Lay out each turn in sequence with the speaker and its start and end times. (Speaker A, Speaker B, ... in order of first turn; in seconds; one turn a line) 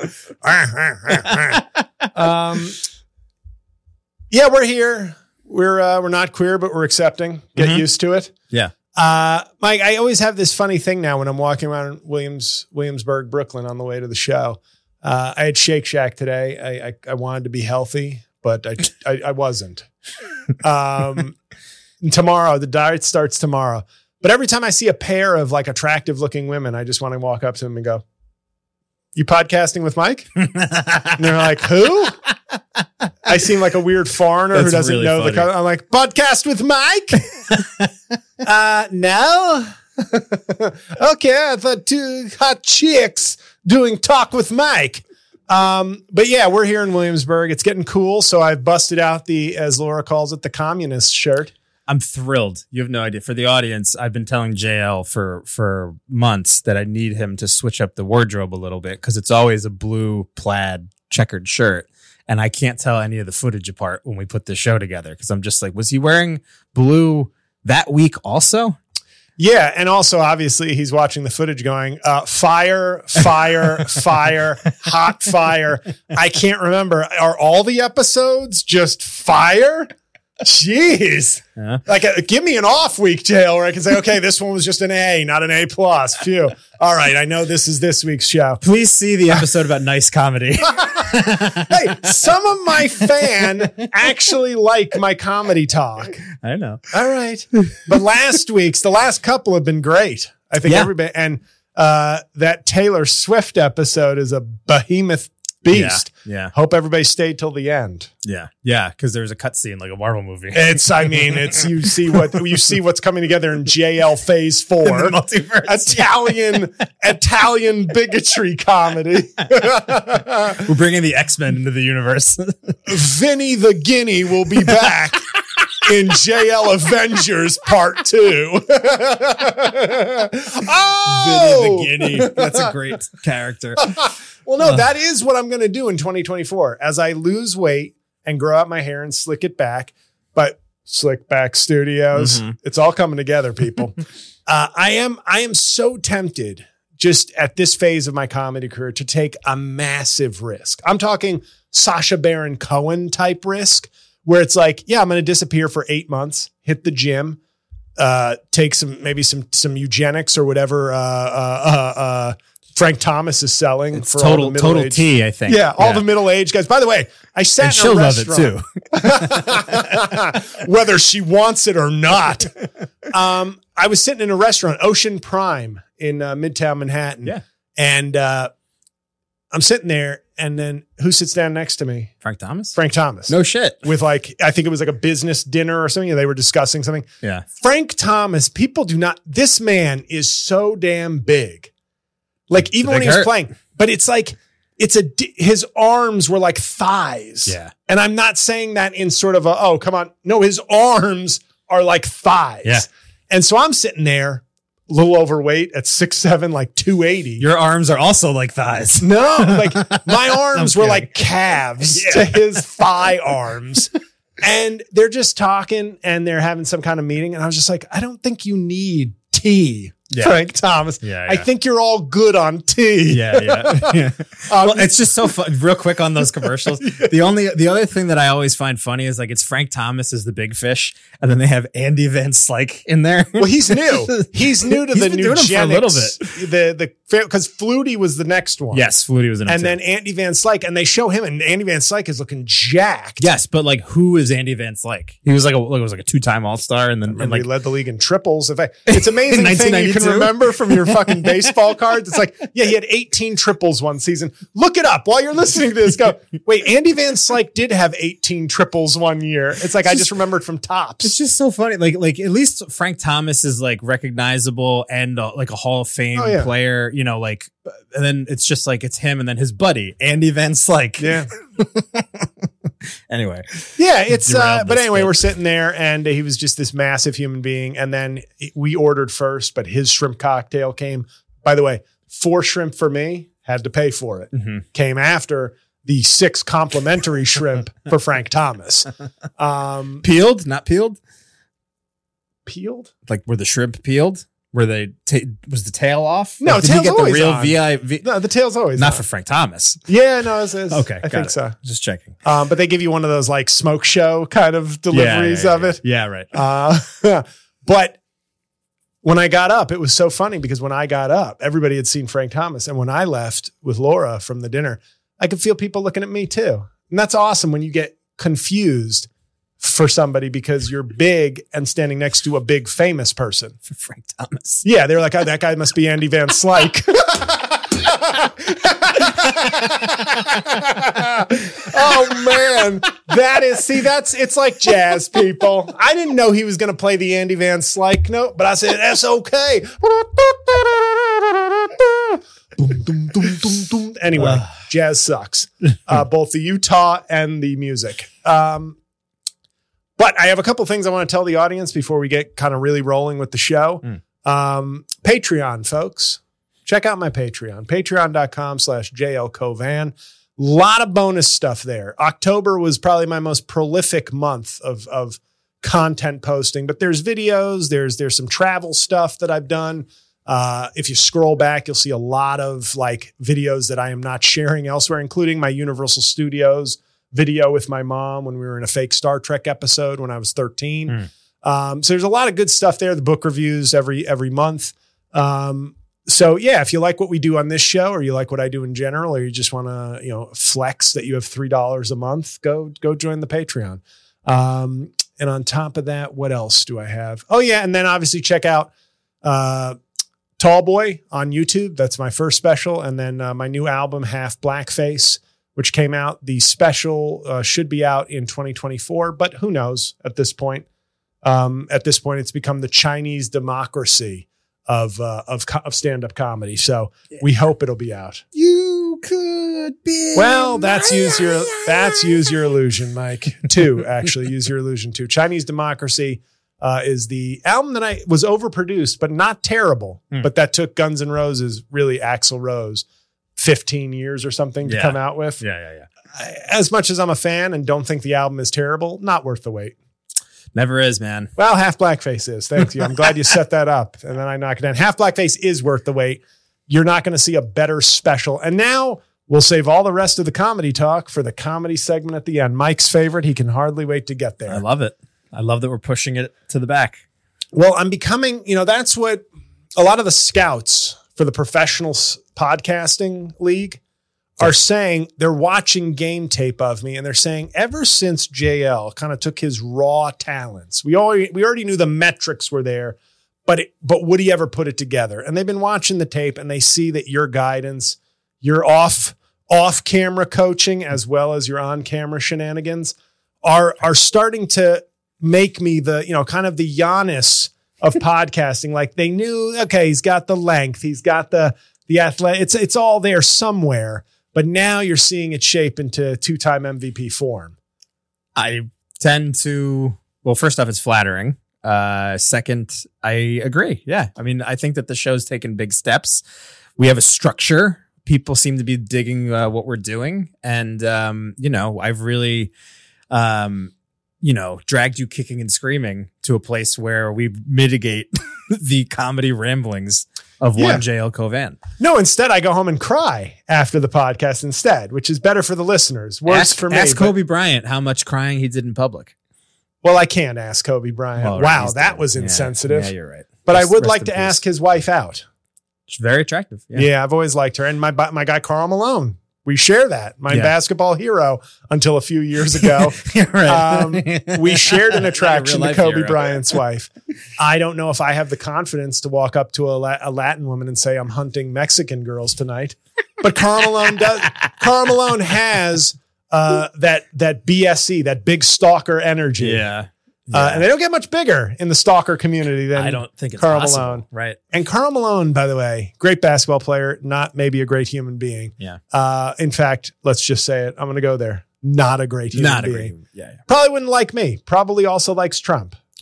Speaker A: 0.4-2.8
Speaker B: 1.1-2.1
Speaker A: 4.3-8.3
Speaker B: 7.6-7.8
Speaker A: 8.9-19.9
Speaker A: 20.6-21.4
Speaker A: 22.0-28.0
Speaker A: 29.1-30.4
Speaker B: 30.4-31.4
Speaker A: 31.1-32.2
Speaker B: 32.3-32.8
Speaker A: 33.2-37.6
Speaker B: 34.5-35.5
Speaker A: 38.4-51.5
Speaker B: 51.9-68.8
Speaker A: 69.4-88.6
Speaker B: 88.6-92.2
Speaker A: 90.7-96.3
Speaker B: 96.4-96.8
Speaker A: 96.9-108.1
Speaker B: 100.6-100.9
Speaker B: 105.7-106.5
Speaker B: 108.2-111.7
Speaker A: 110.5-120.7
Speaker B: 114.8-116.3
Speaker B: 120.7-122.9
Speaker A: 122.9-132.7
Speaker B: 131.1-133.9
Speaker A: 133.8-157.4
Speaker B: 142.2-142.6
Speaker A: 158.0-178.5
Speaker B: 163.9-166.1
Speaker B: 167.6-170.0
Speaker A: 179.5-182.1
Speaker B: 182.2-182.8
Speaker A: 182.7-191.7
Speaker B: 183.3-183.9
Speaker A: 192.5-207.4
Speaker B: 192.8-193.3
Speaker B: 197.5-197.7
Speaker B: 207.4-211.1
Speaker A: 209.0-225.1
Speaker B: 211.9-212.4
Speaker B: 221.0-221.4
Speaker B: 223.1-236.3
Speaker A: 226.8-227.1
Speaker A: 233.4-238.8
Speaker B: 238.7-239.8
Speaker A: 239.5-243.2
Speaker B: 243.2-247.5
Speaker A: 247.1-261.1
Speaker B: 248.9-251.5
Speaker B: 261.0-275.2
Speaker A: 266.1-266.5
Speaker A: 271.0-271.3
Speaker A: 273.8-290.0
Speaker B: 284.3-284.6
Speaker B: 290.0-291.0
Speaker A: 292.5-292.9
Speaker B: 293.1-298.1
Speaker A: 296.4-299.0
Speaker B: 298.8-299.8
Speaker A: 299.9-301.6
Speaker B: 300.7-302.2
Speaker A: 302.2-305.8
Speaker B: 304.9-306.3
Speaker A: 306.3-308.0
Speaker A: 309.0-319.1
Speaker A: 319.6-323.6
Speaker B: 323.7-324.6
Speaker A: 324.6-348.8
Speaker B: 329.0-330.9
Speaker B: 331.7-332.6
Speaker B: 344.2-344.5
Speaker A: 350.0-398.7
Speaker A: 399.2-399.8
Speaker A: 400.4-410.7
Speaker A: 411.2-418.2
Speaker B: 418.4-422.4
Speaker A: 420.1-432.9
Speaker A: 433.4-435.4
Speaker B: 434.6-435.9
Speaker A: 436.1-439.8
Speaker B: 440.5-441.3
Speaker A: 441.4-454.6
Speaker B: 454.5-457.0
Speaker A: 457.5-459.2
Speaker A: 459.8-463.8
Speaker A: 464.4-497.6
Speaker B: 498.4-506.2
Speaker B: 506.8-512.5
Speaker B: 513.1-521.6
Speaker A: 520.6-520.8
Speaker A: 521.8-527.1
Speaker B: 526.3-529.1
Speaker A: 529.8-532.9
Speaker B: 531.2-534.4
Speaker A: 533.5-535.2
Speaker B: 535.9-536.9
Speaker A: 536.8-559.6
Speaker B: 542.6-546.5
Speaker B: 559.4-560.6
Speaker A: 560.3-573.0
Speaker B: 562.8-564.4
Speaker B: 572.3-573.4
Speaker A: 573.5-575.8